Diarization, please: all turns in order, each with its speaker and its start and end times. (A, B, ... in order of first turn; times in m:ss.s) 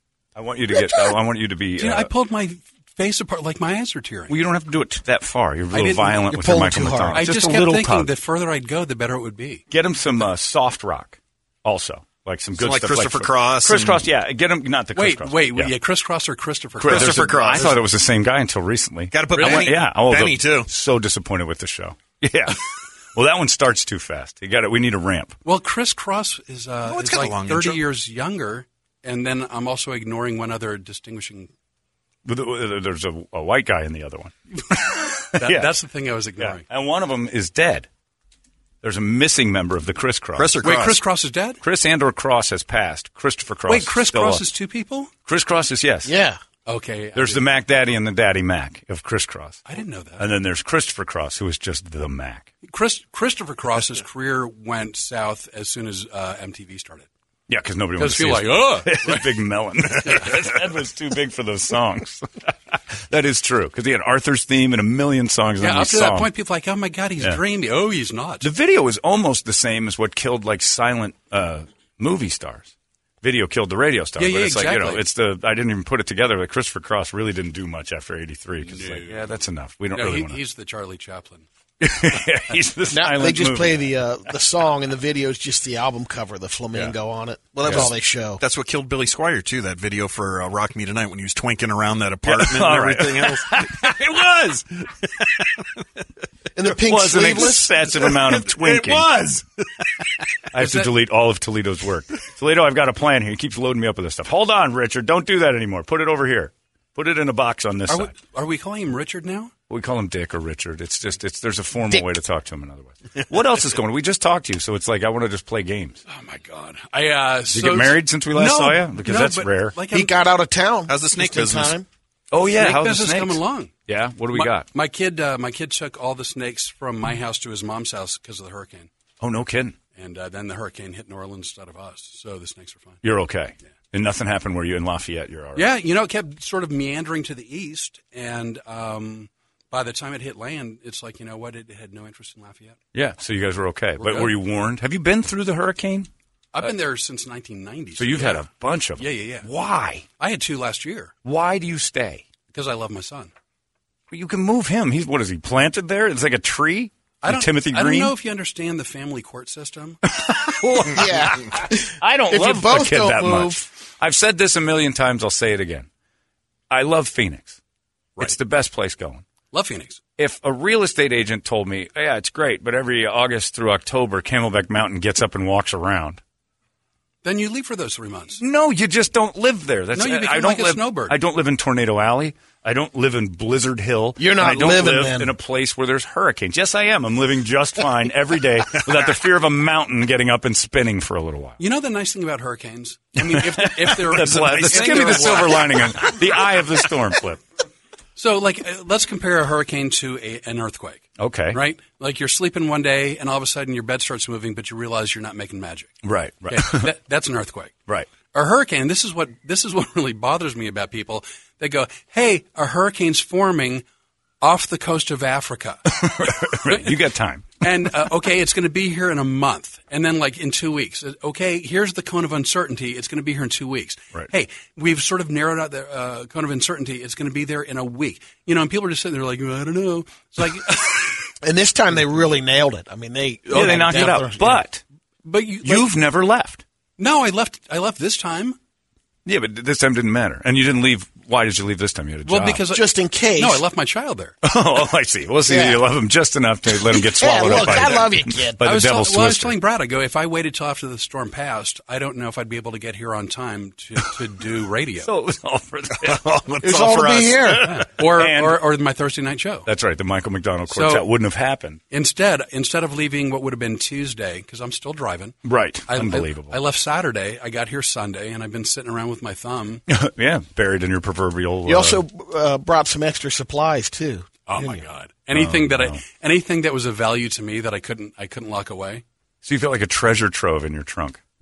0:00.3-0:02.1 A
0:01.8-0:04.4 B
0:04.3-0:08.1 A
0:05.7-0:06.3 B
0:06.3-0:07.2 C
0:07.1-0:09.6 B
0:09.7-0:15.7 A
0:12.5-0:14.0 D
0:14.9-0:17.8 B
0:16.8-0:22.6 A
0:16.8-0:17.8 D
0:19.1-0:20.7 D
0:19.3-0:19.7 B
0:23.1-0:25.4 A
0:25.4-0:31.5 B
0:26.8-0:27.8 D
0:32.2-0:35.7 A
0:35.3-0:36.6 B
0:36.4-0:37.9 A
0:38.8-0:40.6 A
0:40.3-0:41.0 D
0:40.6-0:41.6 B
0:41.6-0:44.4 A
0:43.7-0:45.1 B
0:45.2-0:46.1 A
0:46.0-0:46.4 C
0:46.6-0:47.4 B
0:47.1-0:49.6 A
0:49.6-0:50.3 B
0:50.2-0:52.5 A
0:52.6-0:57.1 B
0:57.5-1:02.5 A
0:58.0-0:59.4 B
1:00.0-1:00.4 B
1:03.1-1:06.3 A
1:05.6-1:08.5 B
1:08.4-1:20.4 A
1:14.2-1:15.0 B
1:18.6-1:19.3 B
1:19.9-1:21.4 B
1:21.8-1:23.9 A
1:22.9-1:28.4 C
1:27.6-1:34.6 D
1:32.2-1:34.5 A
1:36.6-1:37.9 C
1:36.6-1:39.1 A
1:38.2-1:39.4 D
1:40.5-1:48.1 A
1:40.6-1:40.9 B
1:47.9-1:49.5 B
1:49.7-1:56.0 A
1:56.1-2:00.1 B
1:57.5-1:59.8 A
1:59.9-2:01.8 C
2:00.9-2:01.8 D
2:02.3-2:04.7 A
2:02.4-2:03.7 B
2:04.3-2:08.9 B
2:09.2-2:09.8 A
2:09.9-2:13.0 B
2:13.0-2:15.7 A
2:15.5-2:22.8 B
2:22.9-2:26.7 A
2:24.0-2:24.4 B
2:26.5-2:28.5 B
2:28.0-2:30.0 A
2:29.0-2:29.5 B
2:30.2-2:31.1 B
2:31.2-2:32.2 A
2:32.5-2:33.3 B
2:34.1-2:38.1 A
2:37.2-2:40.0 B
2:40.0-2:45.9 A
2:40.9-2:43.6 C
2:46.7-2:47.6 A
2:48.2-2:49.2 A
2:49.5-2:50.0 B
2:50.2-2:56.2 A
2:57.2-2:58.4 B
2:58.4-3:11.6 A
2:59.9-3:01.2 B
3:04.2-3:05.3 C
3:11.6-3:16.2 B
3:13.2-3:17.4 A
3:18.2-3:33.8 B
3:21.2-3:21.6 A
3:26.0-3:26.9 A
3:34.4-3:35.8 B
3:35.9-3:37.6 A
3:36.6-3:37.0 B
3:37.6-3:51.3 B
3:51.4-3:54.6 C
3:53.5-3:54.8 A
3:53.5-3:54.2 B
3:55.2-3:55.9 B
3:55.6-3:56.6 A
3:57.0-3:58.6 B
3:59.2-4:02.6 A
4:02.2-4:04.3 B
4:02.7-4:03.6 C
4:04.4-4:09.5 A
4:05.4-4:05.9 C
4:06.8-4:08.6 C
4:08.6-4:15.1 B
4:15.0-4:18.6 A
4:16.6-4:17.7 C
4:17.5-4:19.7 B
4:19.6-4:21.8 A
4:20.7-4:21.1 B
4:21.9-4:25.4 B
4:25.4-4:26.6 A
4:25.9-4:29.8 B
4:29.9-4:32.0 A
4:31.6-4:34.8 C
4:34.5-4:39.0 B
4:35.3-4:36.0 A
4:39.4-4:41.2 A